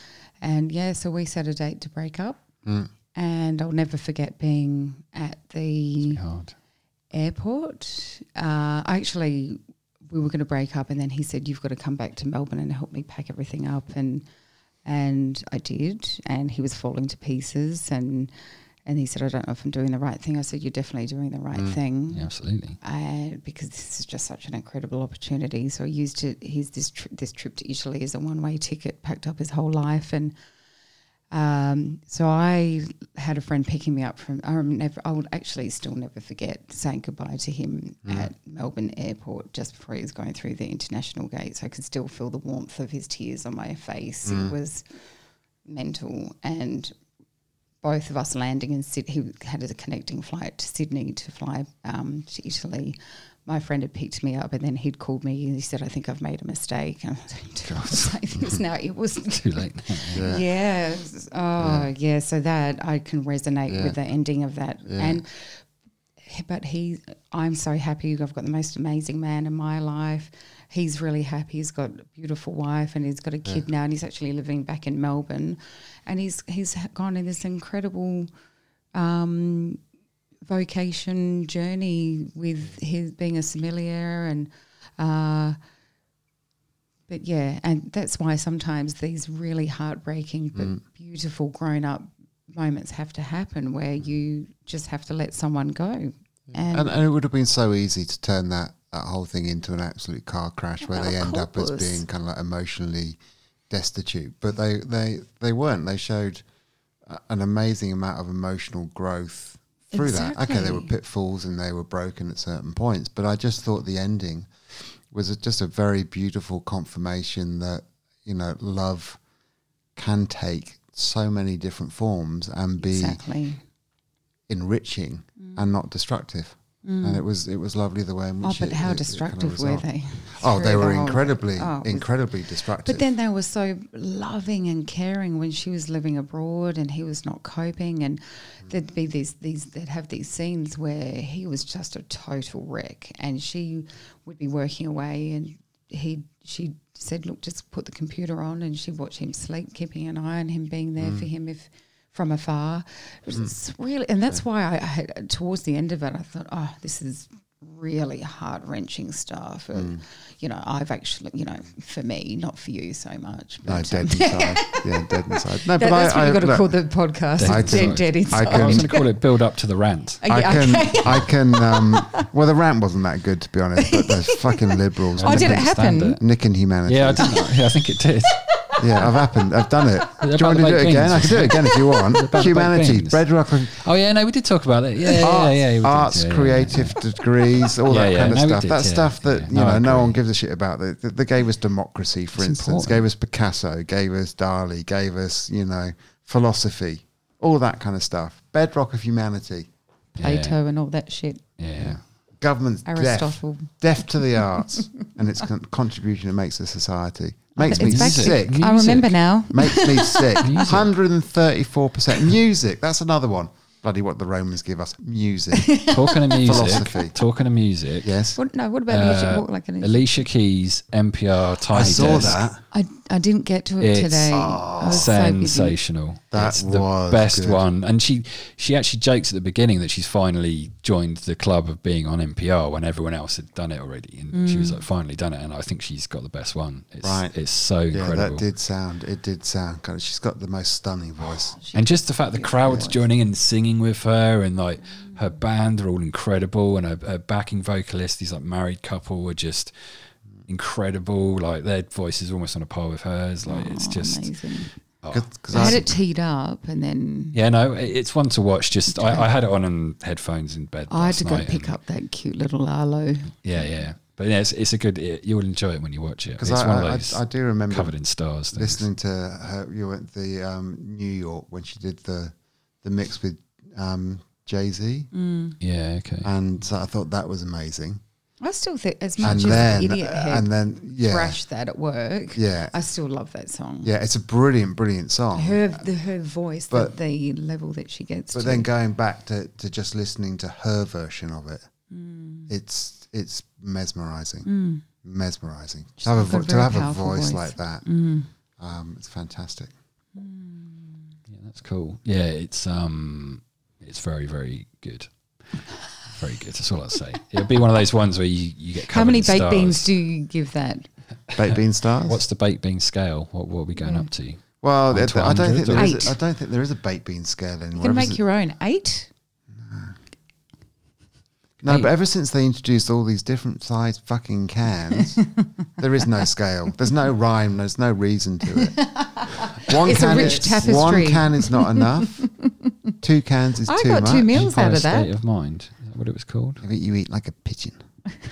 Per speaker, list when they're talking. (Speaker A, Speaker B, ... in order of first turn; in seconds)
Speaker A: 0.4-2.4, 3.1-6.2, 7.1-9.6, 10.1-14.2, 14.8-18.3, 18.9-22.3, 22.8-30.3, 31.3-44.9, 45.6-46.9, 47.8-65.6, 66.2-78.3, 78.9-79.8, 80.5-85.6, 87.1-96.9, 100.8-102.0, 109.9-110.9, 122.8-123.6, 125.4-125.7, 126.8-127.2, 128.4-132.1, 132.8-169.1, 170.2-172.3, 173.8-176.2, 177.2-177.7, 178.3-179.0, 200.2-201.4, 202.8-205.1, 207.6-210.7, 215.5-216.2, 218.4-220.2, 221.9-225.8, 234.3-234.8, 241.6-243.0, 253.4-254.7, 255.5-257.4, 258.9-259.3, 260.9-263.7, 275.1-275.6, 278.4-283.9, 285.3-288.7, 291.9-292.5, 294.4-294.8, 296.0-298.3, 300.1-301.1, 308.8-310.9, 313.8-314.1, 315.7-316.2, 317.8-319.1, 325.0-325.5, 328.5-332.9, 333.6-335.1
Speaker B: 6.0-6.5, 22.1-22.8, 59.3-60.3, 167.4-170.2, 175.2-176.2, 176.8-179.2, 180.2-187.0, 187.8-190.2, 192.4-193.1, 200.2-200.6, 201.6-202.0, 207.7-209.2, 210.4-210.9, 215.9-218.1, 218.9-222.5, 223.8-238.4, 241.7-249.7, 250.5-254.3, 255.0-255.9, 257.3-261.8, 263.4-268.9, 275.6-276.3, 301.3-309.9, 311.3-316.1, 330.1-331.0, 334.3-336.6
Speaker C: 21.5-21.8, 38.0-38.3, 44.2-44.5, 60.1-60.4, 61.6-61.9, 63.7-64.0, 64.9-65.2, 96.7-103.2, 103.7-106.4, 107.0-119.2, 120.0-123.2, 124.5-133.0, 151.0-151.3, 163.6-166.7, 167.4-168.9, 170.2-177.4, 178.8-183.8, 185.2-199.7, 201.8-208.7, 209.5-215.8, 216.4-217.1, 218.0-218.4, 221.7-222.6, 224.3-225.1, 226.3-227.6, 237.0-237.3, 237.9-241.6, 255.1-255.9, 266.4-267.9, 268.5-275.1, 276.2-278.0, 279.2-281.4, 282.3-282.7, 283.8-285.8, 288.3-291.7, 292.5-294.5, 295.0-297.8, 298.6-299.7, 311.3-312.2, 314.6-318.2, 319.5-319.9, 321.6-325.2, 325.8-328.9, 329.6-332.2, 333.0-334.4, 336.6-337.8